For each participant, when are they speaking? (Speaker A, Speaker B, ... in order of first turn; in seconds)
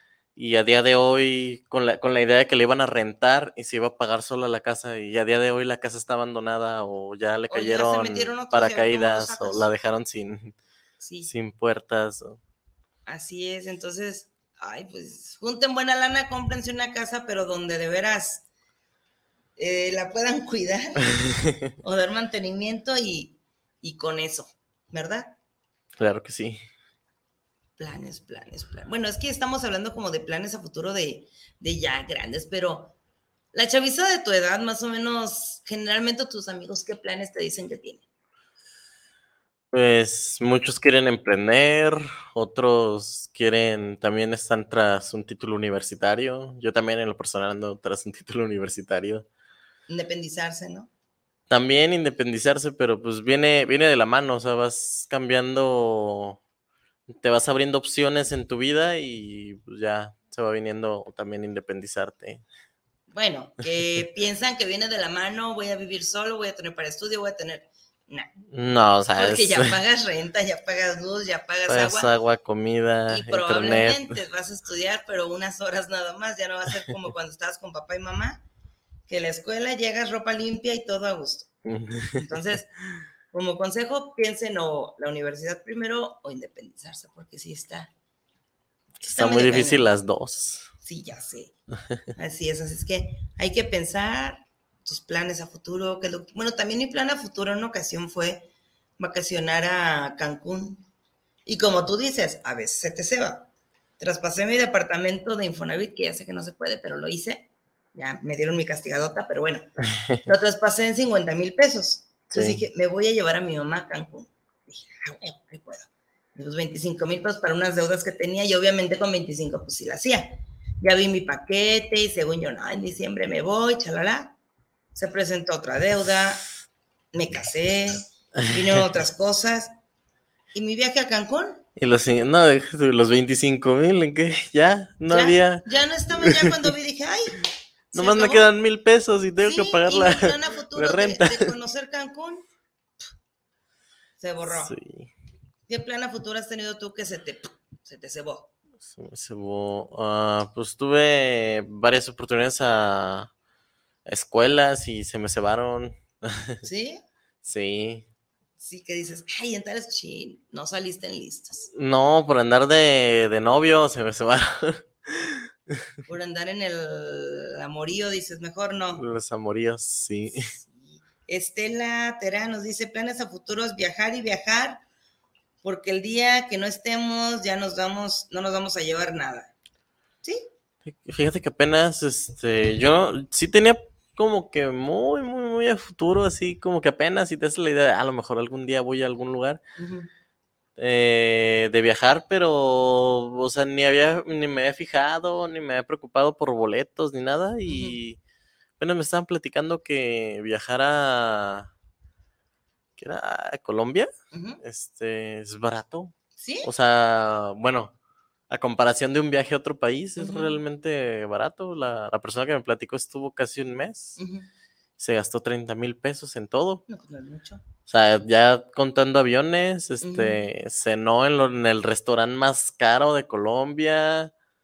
Speaker A: 0.4-10.6, 11.2-12.4, 26.0-26.6, 39.7-49.3, 51.5-56.4, 57.1-62.4, 68.5-69.8, 71.7-74.2, 81.7-82.2, 89.0-90.7, 112.3-112.6, 131.8-136.4, 137.9-141.5, 144.5-145.1, 148.9-153.3, 154.1-156.6, 157.4-158.1, 161.7-165.4, 169.0-170.4, 180.8-189.6, 190.8-198.2, 198.8-201.7, 203.0-204.1, 204.6-207.9, 208.5-214.2, 215.0-216.8, 217.9-224.3
Speaker B: 7.5-9.7, 11.0-11.3, 13.1-18.4, 19.6-21.2, 21.8-25.4, 27.8-32.9, 33.5-38.0, 49.9-50.9, 63.1-68.3, 69.2-72.1, 73.1-78.4, 79.1-81.5, 82.2-82.7, 83.3-87.9, 89.1-89.8, 90.8-91.5, 92.2-100.8, 101.5-103.5, 104.0-109.7, 110.3-124.3, 125.0-126.5, 127.1-129.7, 130.5-131.6, 135.1-137.4, 137.9-138.5, 139.4-142.4, 144.2-144.7, 145.7-148.5, 156.6-157.0, 158.6-161.7, 166.1-169.0, 170.3-174.8, 175.6-179.5, 189.8-190.1, 197.7-198.0, 204.3-204.6, 206.4-206.7, 210.2-210.6, 214.2-214.5, 216.9-217.6, 220.0-220.4